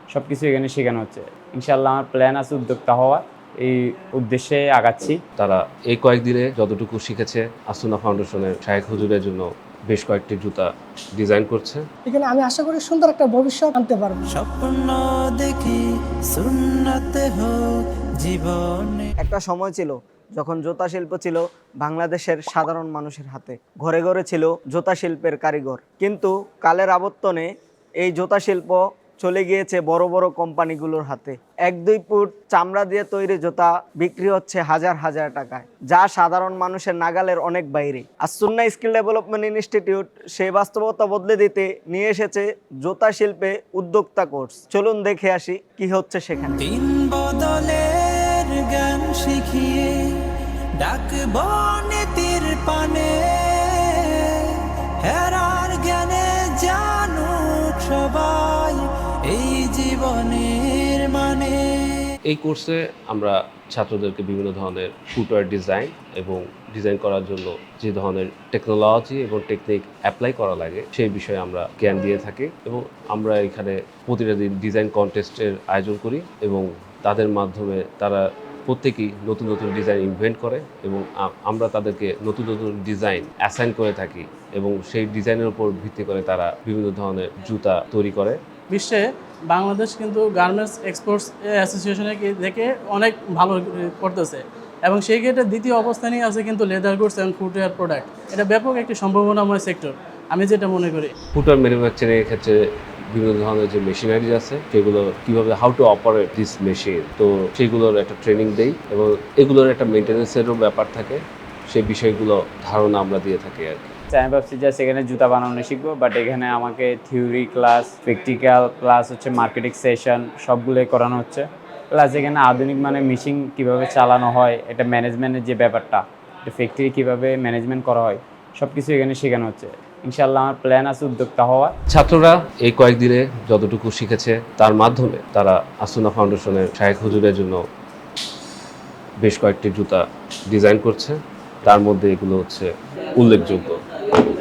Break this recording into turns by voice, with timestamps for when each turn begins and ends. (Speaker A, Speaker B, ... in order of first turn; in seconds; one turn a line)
Speaker A: 0.1-5.2
Speaker B: 5.4-11.8
Speaker C: 12.1-14.2
Speaker D: 14.3-17.6
Speaker D: 18.2-19.1
Speaker E: 19.2-27.5
Speaker E: 28.0-46.6
Speaker D: 46.6-50.2
Speaker D: 50.8-61.9
Speaker B: 62.3-88.4
Speaker F: 88.7-101.1
Speaker B: 101.3-102.6
Speaker B: 103.1-113.8
Speaker A: 114.1-131.7
Speaker B: 131.9-137.6
Speaker B: 139.2-144.2